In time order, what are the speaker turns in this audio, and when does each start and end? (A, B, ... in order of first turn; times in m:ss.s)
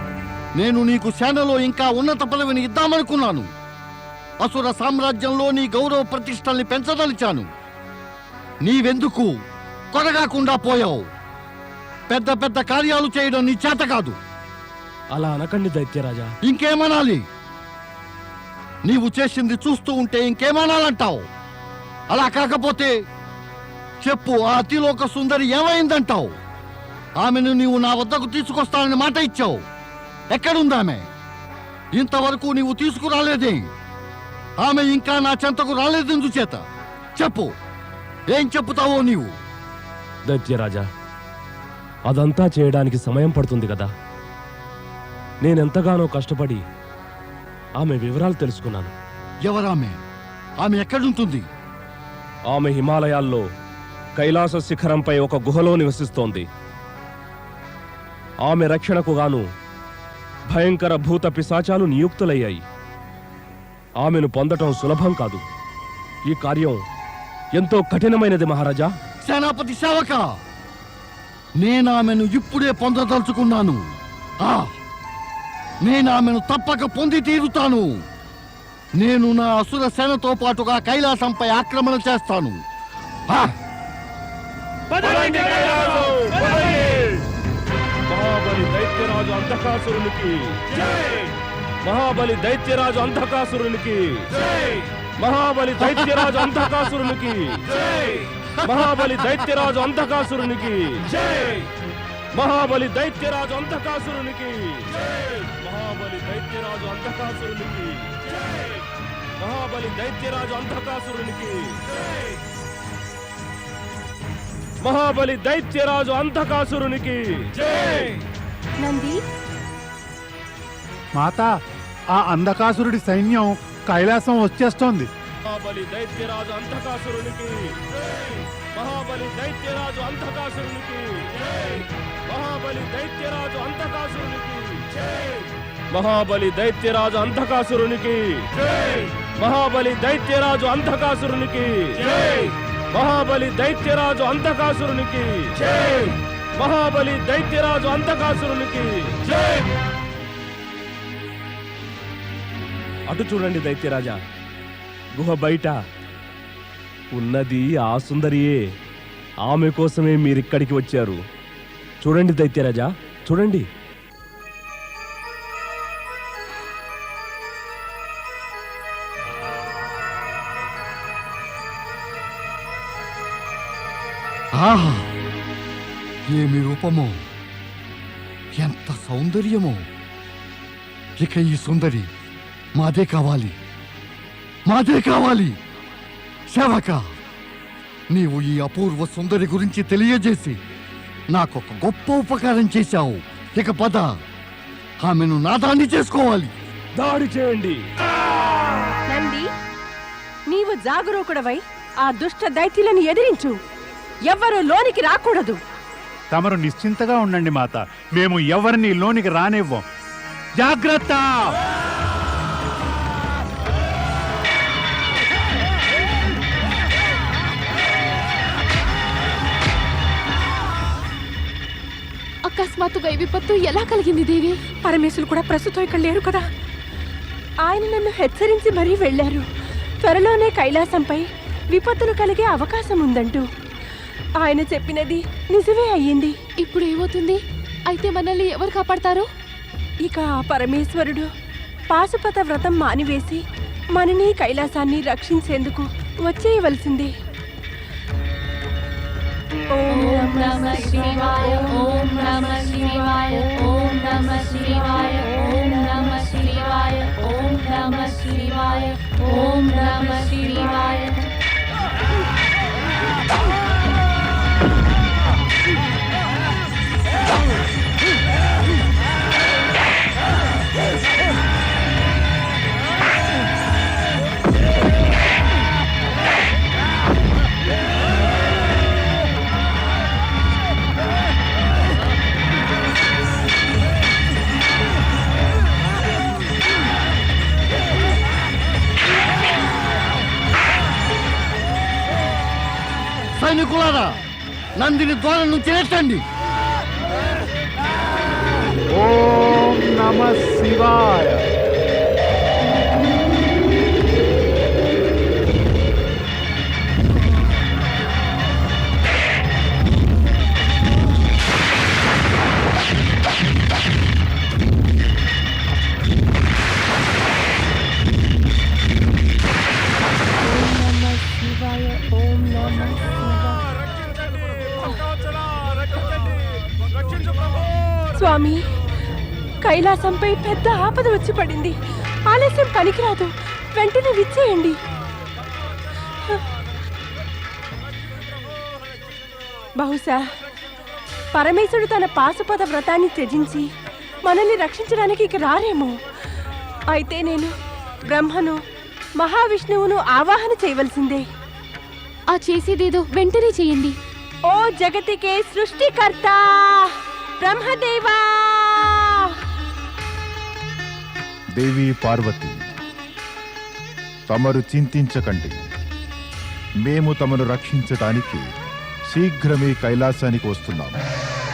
0:00.6-0:03.5 A
0:04.4-0:07.5 A
0:08.6-0:09.3 A
0:09.9-0:11.1 A
0:12.1-0:14.2 A
0:15.1-0:16.3 B
0:16.4-0:17.3 A
0:18.8-0:21.3 A
0:22.1-0:23.0 A
0:24.0-0:26.4 A
0:27.2-0:29.6 A
0:30.3-0:31.1 A
0:31.9-0:33.7 A
0:34.6-0:36.6 A
0:37.2-0:37.5 A
0:38.3-0:39.4 A
0:40.3-0:40.9 B
0:42.1-0:43.9 B
0:45.4-0:46.6 B
0:47.8-0:48.9 B
0:49.4-0:50.0 A
0:50.6-0:51.5 A
0:52.5-0:53.5 B
0:54.2-0:56.5 B
0:58.4-0:59.5 B
1:00.5-1:02.6 B
1:04.0-1:05.4 B
1:06.3-1:06.8 B
1:07.6-1:08.9 B
1:09.2-1:10.3 A
1:11.6-1:14.7 A
1:15.8-1:18.0 A
1:19.0-1:22.6 A
1:28.1-1:30.7 B
1:31.8-1:34.3 B
1:35.2-1:37.7 B
1:38.6-1:41.1 B
1:42.3-1:48.6 B
1:49.4-1:51.8 B
1:54.8-1:57.5 B
1:58.8-1:59.2 C
2:01.2-2:01.6 D
2:02.1-2:05.1 D
2:05.5-2:07.8 B
2:08.7-2:11.6 B
2:12.3-2:15.2 B
2:15.9-2:18.5 B
2:19.4-2:22.3 B
2:22.9-2:25.6 B
2:26.6-2:29.3 B
2:33.1-2:34.2 B
2:35.2-2:35.8 B
2:37.1-2:38.6 B
2:39.4-2:41.2 B
2:42.0-2:43.7 B
2:54.5-2:55.1 A
2:56.3-2:57.2 A
2:58.6-2:59.9 A
3:01.2-3:02.1 A
3:02.8-3:03.6 A
3:04.7-3:05.6 A
3:06.5-3:07.1 A
3:08.1-3:10.6 A
3:11.3-3:14.1 A
3:15.0-3:16.5 A
3:17.0-3:17.8 B
3:19.1-3:19.5 C
3:20.5-3:23.6 C
3:24.3-3:25.6 C
3:26.3-3:29.8 D
3:30.6-3:31.5 D
3:42.4-3:44.6 E
3:44.8-3:46.4 C
3:47.7-3:49.4 C
3:50.0-3:53.4 C
3:54.4-3:56.4 C
3:56.6-3:59.3 E
4:00.1-4:01.3 C
4:01.9-4:03.4 C
4:04.0-4:07.1 C
4:09.8-4:11.9 C
4:09.9-4:21.2 E
4:12.8-4:13.8 C
4:15.0-4:15.4 C
4:53.4-4:54.2 A
4:54.8-4:56.2 A
4:58.9-5:01.4 D
5:20.4-5:23.7 C
5:24.8-5:25.1 C
5:28.1-5:28.6 C
5:29.6-5:31.7 C
5:32.3-5:34.8 C
5:39.8-5:40.2 C
5:41.4-5:43.7 C
5:44.3-5:45.9 C
5:46.9-5:47.5 C
5:48.1-5:48.6 C
5:49.2-5:51.2 C
5:52.3-5:54.0 E
5:54.5-5:56.9 C
5:57.4-5:59.3 C
6:01.6-6:02.6 F
6:04.3-6:05.6 F
6:06.8-6:08.5 F
6:09.1-6:11.0 F